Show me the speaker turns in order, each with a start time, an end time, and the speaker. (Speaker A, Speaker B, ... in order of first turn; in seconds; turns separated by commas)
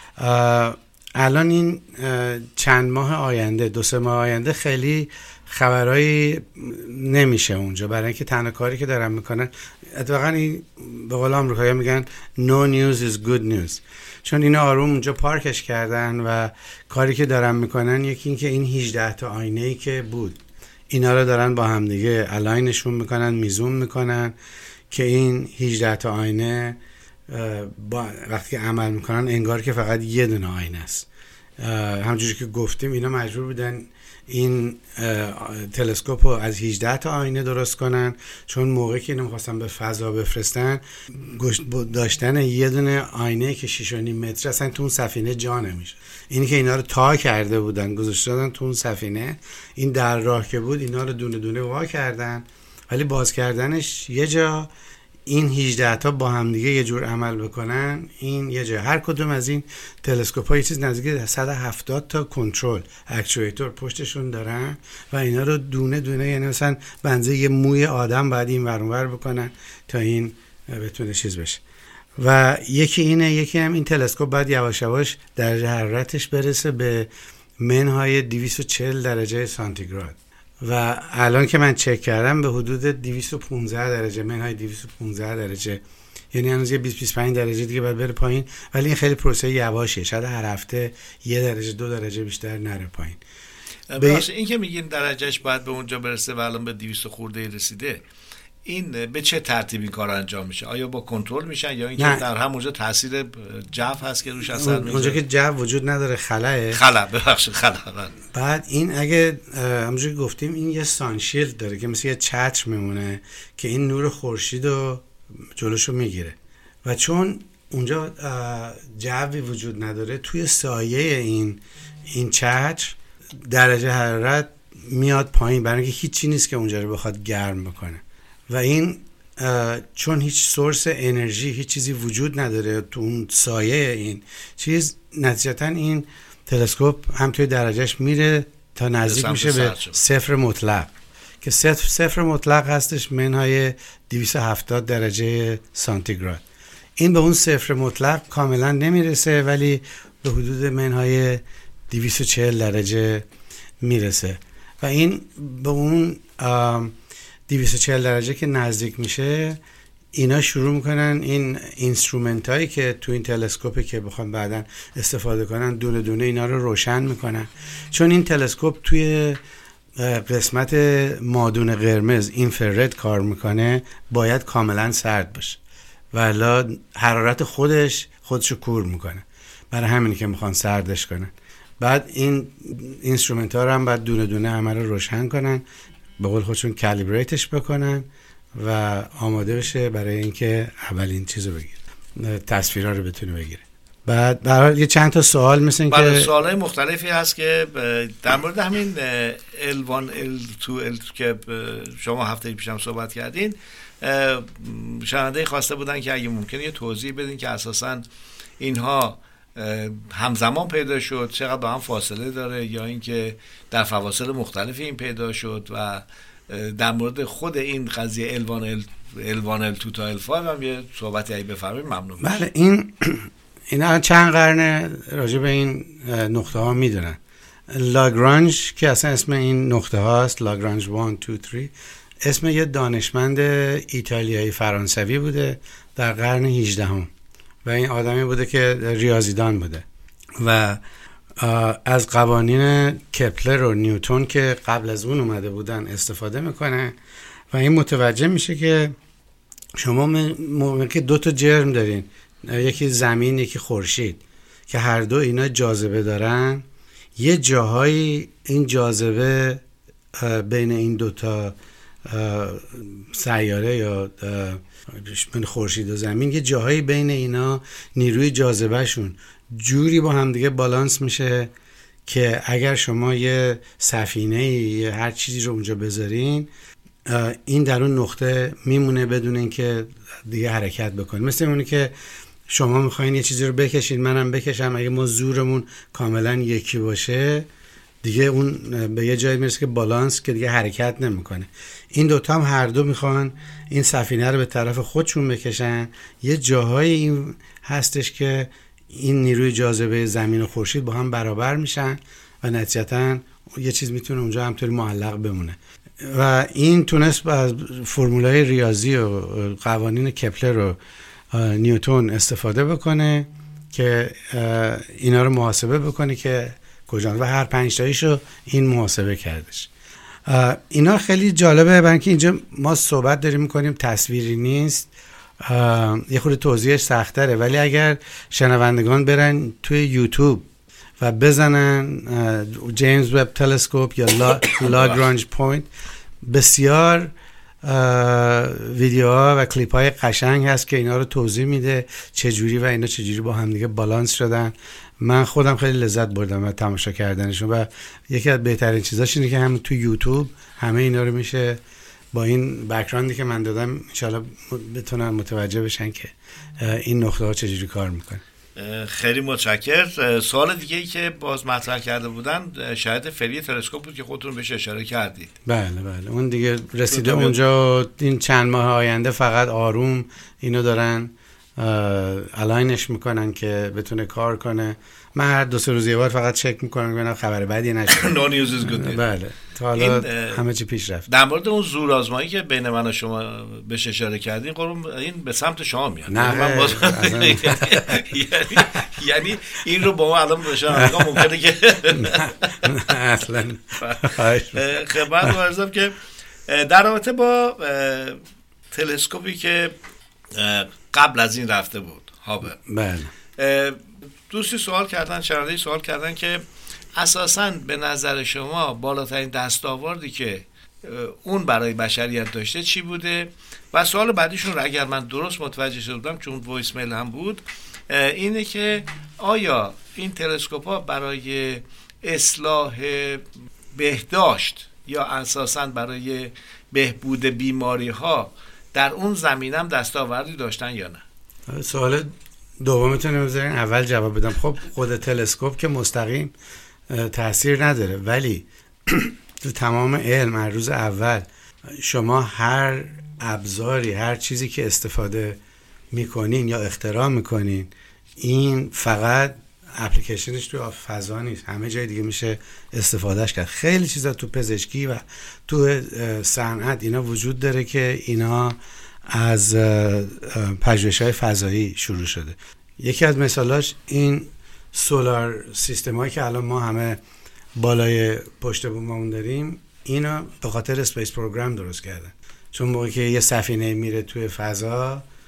Speaker A: 0.2-20.4, Speaker A: 20.9-24.3, Speaker A: 24.9-26.8, Speaker A: 27.3-31.1, Speaker A: 31.6-54.7, Speaker A: 55.3-71.6, Speaker A: 72.2-77.1, Speaker A: 77.6-85.8, Speaker A: 86.3-93.2, Speaker B: 93.9-98.0, Speaker A: 94.0-94.2, Speaker B: 98.7-105.2, Speaker A: 102.0-102.2, Speaker A: 104.5-106.8, Speaker B: 106.7-108.1, Speaker A: 108.3-115.0, Speaker A: 115.5-140.9, Speaker B: 139.0-140.0, Speaker A: 141.4-146.4, Speaker A: 147.0-153.2, Speaker A: 153.8-156.9, Speaker A: 157.5-159.6, Speaker A: 160.1-169.4, Speaker A: 170.0-175.6, Speaker A: 176.1-185.6, Speaker A: 186.2-196.3, Speaker B: 195.9-208.1, Speaker B: 208.6-222.4, Speaker A: 222.2-227.2, Speaker A: 227.7-237.1, Speaker A: 237.6-239.8, Speaker A: 240.4-240.8, Speaker A: 241.4-246.9, Speaker A: 247.5-248.9, Speaker A: 249.8-256.6, Speaker A: 257.1-259.6, Speaker A: 260.2-261.5, Speaker A: 262.1-271.5, Speaker A: 272.1-276.5, Speaker A: 277.1-281.9, Speaker A: 282.5-287.5, Speaker A: 288.0-310.8, Speaker A: 311.3-319.7, Speaker A: 320.3-324.9, Speaker A: 325.4-330.4, Speaker A: 331.0-335.7, Speaker B: 334.6-335.0, Speaker A: 336.2-337.1, Speaker A: 337.6-351.6, Speaker A: 352.1-358.2, Speaker B: 358.6-365.3, Speaker A: 365.4-378.1, Speaker B: 366.9-367.4, Speaker B: 377.9-379.0, Speaker A: 378.7-381.1, Speaker B: 379.7-380.4, Speaker B: 381.1-392.9, Speaker A: 386.1-388.1, Speaker A: 390.7-391.2, Speaker A: 391.9-394.6, Speaker B: 393.8-395.9, Speaker B: 396.5-398.2, Speaker B: 398.7-399.7, Speaker B: 400.3-402.6, Speaker A: 402.6-403.1, Speaker B: 403.4-406.4, Speaker B: 406.9-431.0, Speaker A: 431.5-436.3, Speaker A: 436.9-445.4, Speaker A: 445.9-458.6, Speaker A: 459.1-467.0, Speaker A: 467.6-475.0